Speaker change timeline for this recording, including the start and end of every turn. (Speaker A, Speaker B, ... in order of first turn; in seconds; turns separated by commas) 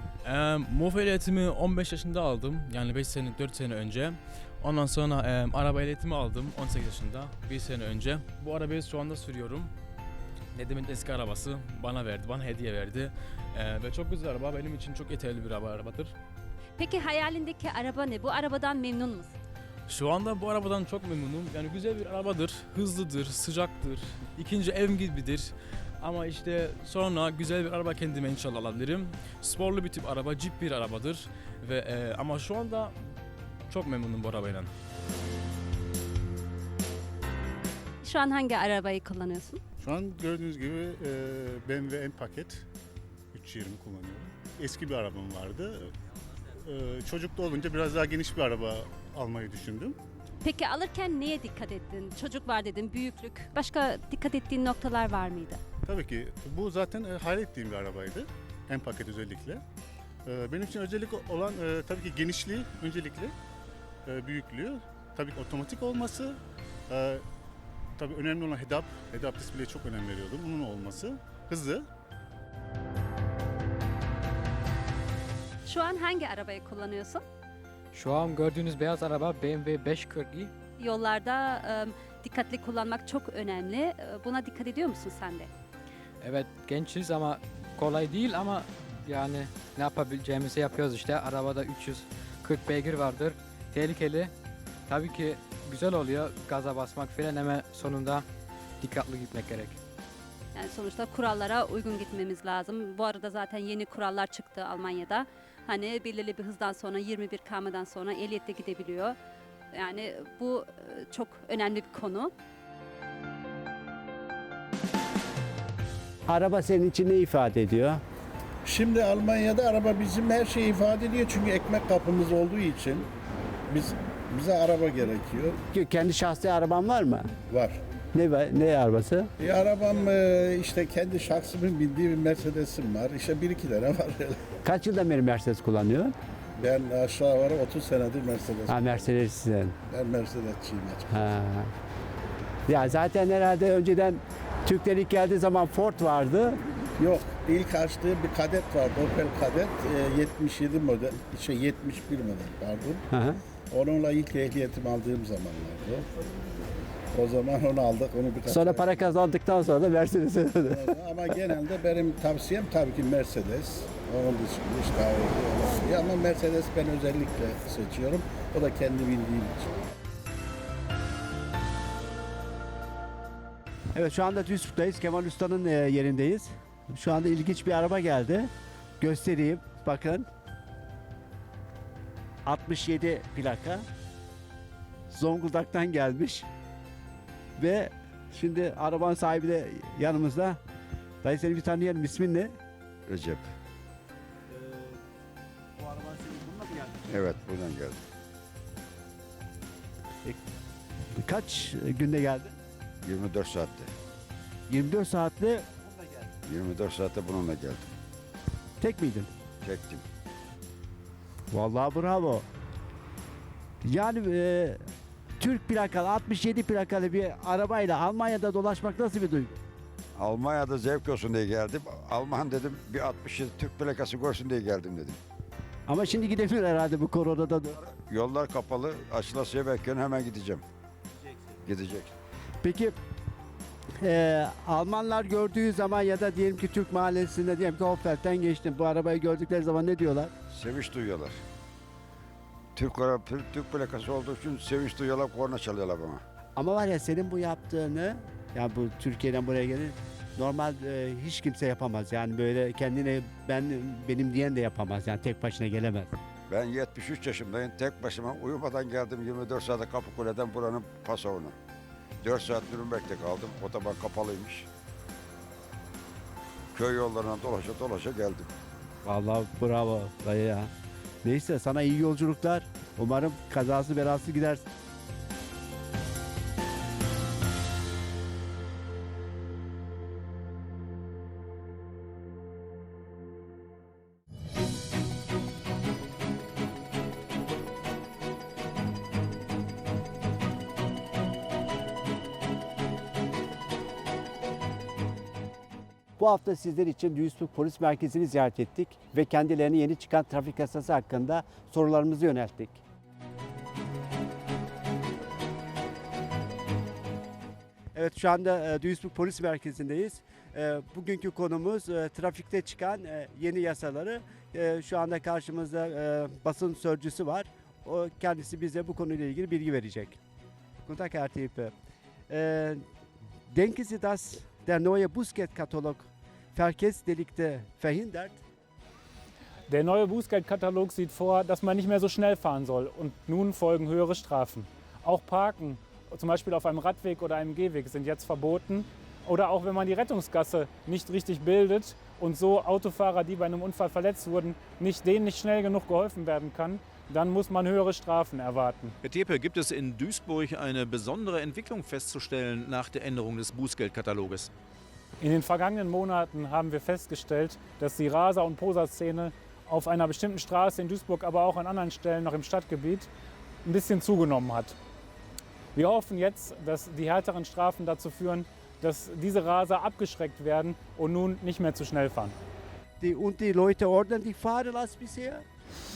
Speaker A: 0.2-9.7, Speaker A: 10.5-16.1, Speaker B: 16.8-19.4, Speaker A: 19.9-33.1, Speaker A: 33.7-34.7, Speaker B: 38.0-39.6, Speaker C: 39.8-42.6, Speaker C: 43.3-45.9, Speaker C: 46.6-50.0, Speaker B: 50.4-55.6, Speaker C: 55.9-59.6, Speaker C: 60.3-63.3, Speaker C: 64.1-66.4, Speaker C: 66.9-67.2, Speaker C: 68.0-71.9, Speaker B: 75.7-77.2, Speaker D: 77.9-80.5, Speaker B: 80.8-85.5, Speaker D: 86.2-94.3, Speaker D: 94.9-98.3, Speaker D: 98.8-99.8, Speaker B: 100.5-109.2, Speaker B: 109.7-112.3, Speaker E: 116.3-118.0, Speaker F: 118.7-123.1, Speaker F: 123.7-125.6, Speaker E: 125.7-127.3, Speaker F: 127.5-127.8, Speaker E: 128.2-129.3, Speaker F: 129.4-134.4, Speaker E: 134.6-136.2, Speaker F: 136.6-139.1, Speaker E: 138.7-139.8, Speaker F: 139.9-141.3, Speaker E: 141.1-141.7, Speaker E: 142.7-146.6, Speaker F: 147.0-153.0, Speaker E: 153.1-153.4, Speaker F: 153.7-156.1, Speaker F: 157.1-159.1, Speaker E: 158.5-161.4, Speaker F: 160.7-169.8, Speaker E: 173.9-180.3, Speaker E: 182.5-183.8, Speaker E: 185.1-186.5, Speaker E: 187.6-190.6, Speaker E: 191.2-192.5, Speaker G: 193.1-193.5, Speaker E: 194.5-195.0, Speaker E: 195.8-197.0, Speaker G: 197.1-198.0, Speaker E: 201.2-202.6, Speaker G: 203.0-203.9, Speaker E: 204.7-206.2, Speaker G: 206.5-207.9, Speaker E: 208.8-209.3, Speaker G: 209.6-210.1, Speaker E: 211.5-212.5, Speaker E: 213.8-214.8, Speaker E: 215.4-219.6, Speaker G: 220.2-225.2, Speaker E: 225.9-227.8, Speaker G: 227.8-230.7, Speaker G: 231.6-232.1, Speaker E: 232.6-233.0, Speaker E: 234.0-240.3, Speaker G: 240.5-241.4, Speaker G: 242.8-246.2, Speaker E: 246.6-256.1, Speaker G: 256.5-261.6, Speaker G: 262.2-264.7, Speaker G: 266.7-268.5, Speaker E: 269.1-270.7, Speaker E: 271.2-274.6, Speaker E: 296.2-302.8, Speaker E: 307.9-320.2, Speaker E: 320.8-321.7, Speaker E: 322.3-322.8, Speaker E: 323.5-328.4, Speaker H: 329.7-348.9, Speaker I: 349.0-354.5, Speaker H: 355.2-363.1, Speaker H: 363.6-364.8, Speaker H: 365.8-372.4, Speaker E: 373.0-375.4